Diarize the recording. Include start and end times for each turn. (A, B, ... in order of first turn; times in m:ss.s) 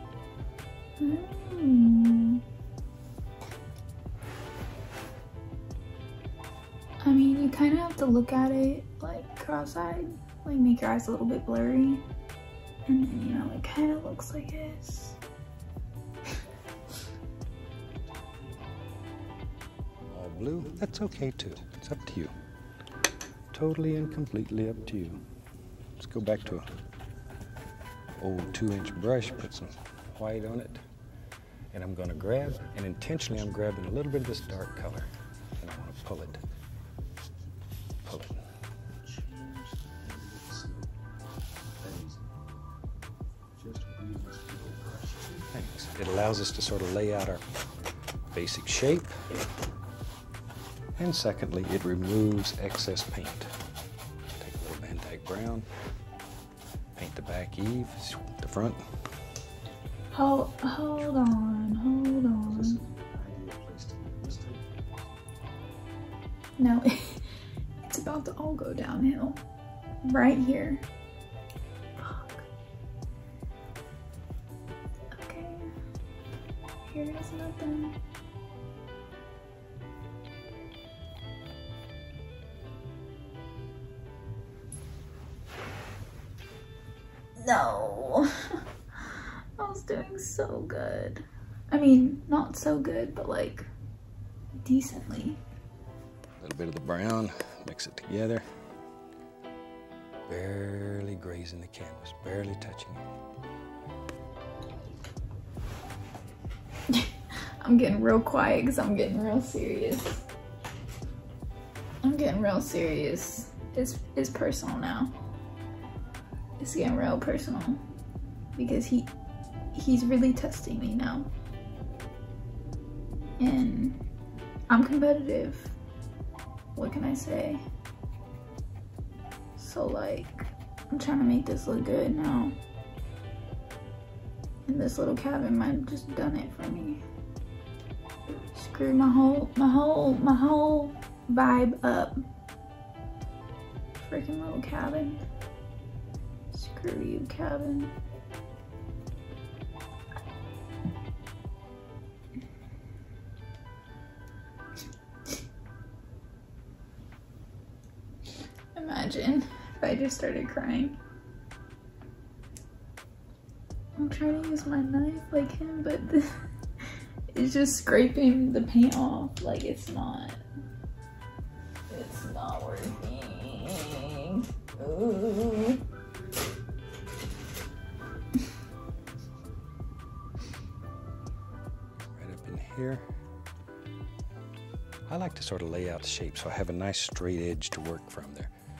0:01.0-0:02.4 A
0:07.0-0:12.0 A
0:12.8-0:15.2 A
0:17.7-0:18.9 B
0:20.1-0:22.3 C
0:20.3-0:22.4 B
0:23.5-0:25.2 C
0:24.2-0:25.2 B
0:26.0-0:26.7 C
0:28.2-0:30.8 C
0:28.2-0:29.7 B
0:31.7-0:35.1 C
0:33.0-0:35.0 B
0:35.6-0:36.4 C
0:38.0-0:38.4 C
0:39.0-0:40.9 B
0:41.8-0:42.4 B
0:43.6-0:45.5 B
0:45.5-0:47.4 C
0:48.3-0:49.1 C
0:51.0-0:53.5 C
0:54.4-0:55.7 C
0:57.0-0:58.8 C
1:00.1-1:02.8 A
1:02.5-1:05.1 B
1:06.6-1:07.2 A
1:07.9-1:09.4 A
1:10.0-1:10.8 A
1:12.0-1:12.4 A
1:15.1-1:15.7 A
1:16.8-1:18.0 A
1:27.4-1:33.7 A
1:34.6-1:35.4 A
1:36.4-1:38.4 C
1:40.3-1:43.1 C
1:46.9-1:50.2 A
1:52.0-1:55.1 A
1:56.6-1:57.8 A
1:58.6-1:59.1 A
1:59.7-2:01.3 A
2:03.4-2:04.0 A
2:04.7-2:05.7 A
2:06.7-2:07.6 A
2:09.6-2:12.5 A
2:14.7-2:17.0 A
2:18.5-2:22.2 A
2:24.0-2:25.2 A
2:26.5-2:27.9 A
2:38.7-2:41.0 A
2:44.0-2:46.3 A
2:46.8-2:50.4 A
2:51.9-2:55.8 A
3:02.1-3:03.0 C
3:05.1-3:08.5 C